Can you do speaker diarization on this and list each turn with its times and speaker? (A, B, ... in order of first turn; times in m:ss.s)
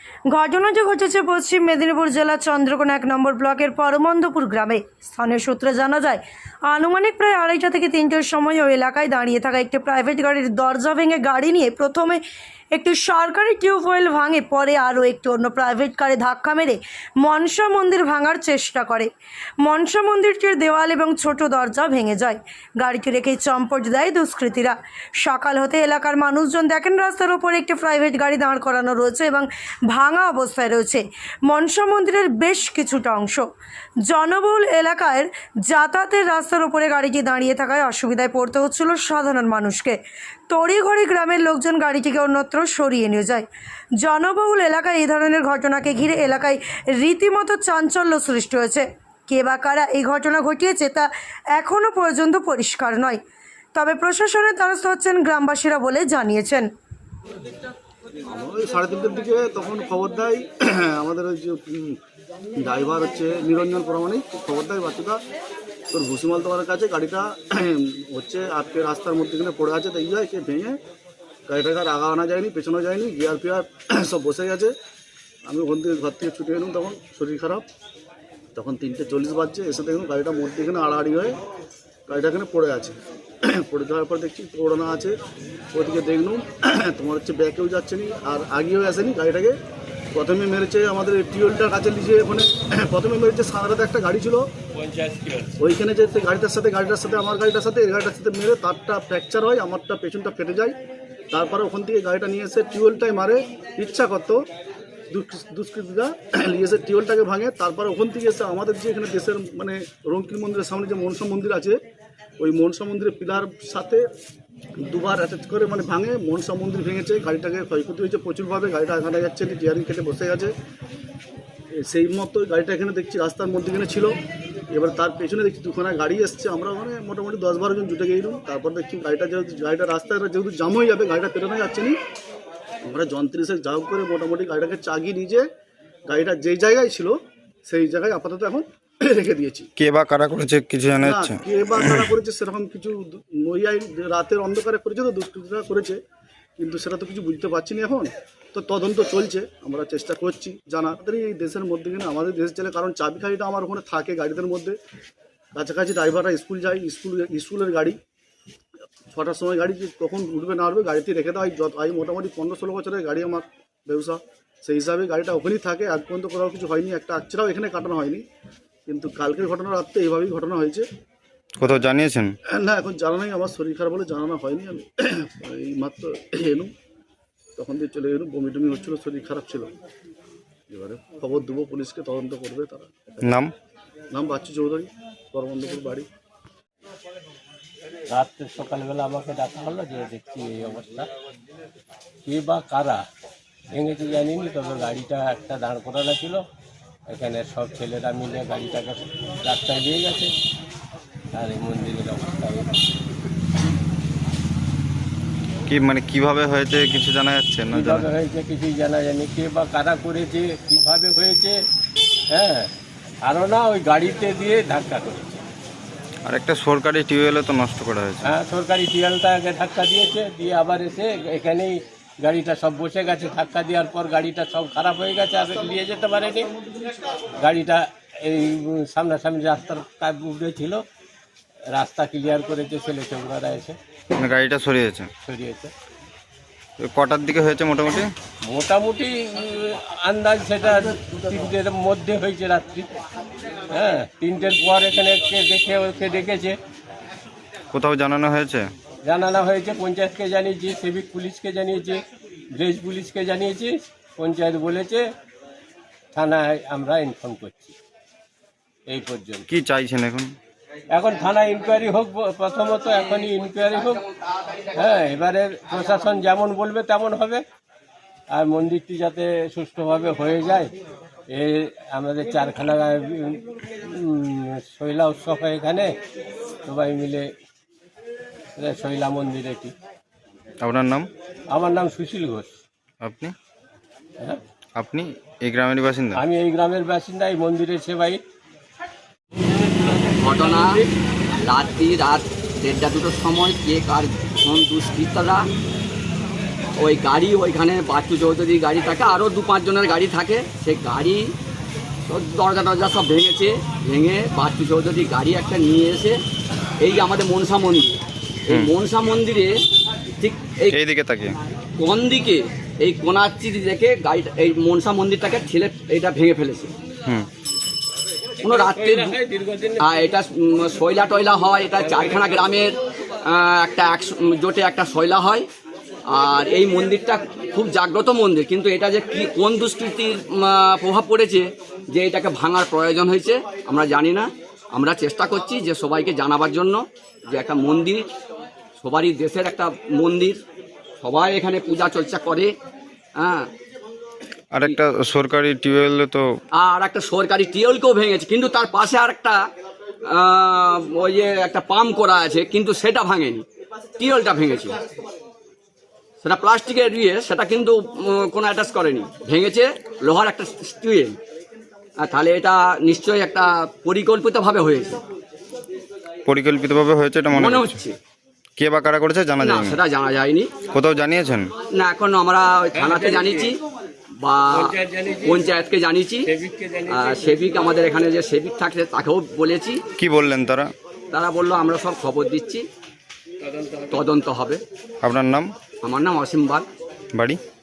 0:00.3-0:12.2 A
0:12.8-0:19.1 A
0:19.6-0:33.5 A
0:34.1-0:43.5 A
0:44.0-0:53.2 A
0:53.7-0:56.7 A
0:58.3-1:02.0 B
1:02.6-1:05.2 B
1:05.9-1:10.8 B
1:11.5-1:14.7 B
1:15.5-1:17.6 B
1:18.6-1:21.4 B
1:22.1-1:25.2 B
1:25.7-1:29.6 B
1:30.1-1:34.5 B
1:34.8-1:35.6 C
1:35.6-1:40.8 B
1:41.3-1:44.4 B
1:45.1-1:51.8 B
1:52.4-1:54.0 B
1:54.8-2:00.5 B
2:01.8-2:04.2 B
2:04.7-2:12.0 B
2:12.8-2:15.5 B
2:16.1-2:19.7 B
2:19.8-2:22.1 D
2:21.0-2:26.0 B
2:26.6-2:34.8 B
2:35.6-2:38.0 B
2:39.1-2:48.2 B
2:48.9-2:50.9 B
2:51.6-2:52.3 D
2:52.5-2:56.7 B
2:57.6-2:59.7 B
3:00.7-3:03.3 B
3:03.2-3:03.5 D
3:04.1-3:06.1 B
3:08.1-3:11.1 C
3:12.2-3:13.1 C
3:13.7-3:16.4 C
3:17.1-3:20.3 C
3:21.3-3:22.7 C
3:25.7-3:28.1 D
3:27.7-3:31.6 C
3:32.3-3:32.7 C
3:33.2-3:35.4 C
3:36.2-3:38.3 D
3:38.2-3:46.6 C
3:47.4-3:50.8 C
3:51.7-3:53.8 C
3:54.1-3:55.1 D
3:55.2-3:55.7 C
3:56.8-3:58.1 D
3:58.4-4:02.9 C
4:03.7-4:06.6 C
4:07.7-4:08.7 D
4:09.0-4:15.1 C
4:16.1-4:17.8 C
4:18.9-4:19.5 C
4:19.5-4:20.3 D
4:20.9-4:24.1 C
4:24.7-4:27.4 C
4:28.3-4:30.7 C
4:31.3-4:35.9 C
4:36.6-4:37.3 C
4:38.6-4:39.8 C
4:40.6-4:41.1 D
4:41.5-4:42.6 C
4:43.0-4:43.3 D
4:44.8-4:46.2 D
4:46.2-4:48.2 C
4:50.2-4:50.8 E
4:50.4-4:50.8 C
4:51.4-4:55.5 E
4:56.8-5:01.4 E
5:02.1-5:06.2 E
5:06.8-5:09.6 E
5:10.2-5:10.8 E
5:10.7-5:11.4 D
5:11.8-5:16.7 E
5:18.4-5:20.1 C
5:18.4-5:19.2 E
5:19.8-5:25.5 E
5:21.7-5:22.6 C
5:26.1-5:38.1 E
5:38.8-5:40.4 E
5:41.0-5:42.5 E
5:43.2-5:43.5 E
5:44.5-5:46.3 D
5:46.5-5:49.5 E
5:50.1-5:53.5 E
5:54.0-5:54.8 E
5:56.2-6:01.2 E
6:02.0-6:05.0 E
6:06.3-6:07.8 D
6:07.3-6:08.0 E
6:08.6-6:09.8 D
6:09.4-6:10.5 E
6:10.7-6:11.5 D
6:11.7-6:13.6 E
6:12.7-6:13.6 C
6:14.2-6:16.3 E
6:14.5-6:15.5 C
6:16.3-6:17.6 C
6:16.9-6:19.8 E
6:20.0-6:20.7 D
6:21.1-6:22.7 E
6:23.4-6:24.1 C
6:23.9-6:24.6 E
6:25.0-6:25.5 D
6:25.8-6:26.7 E
6:27.1-6:27.4 D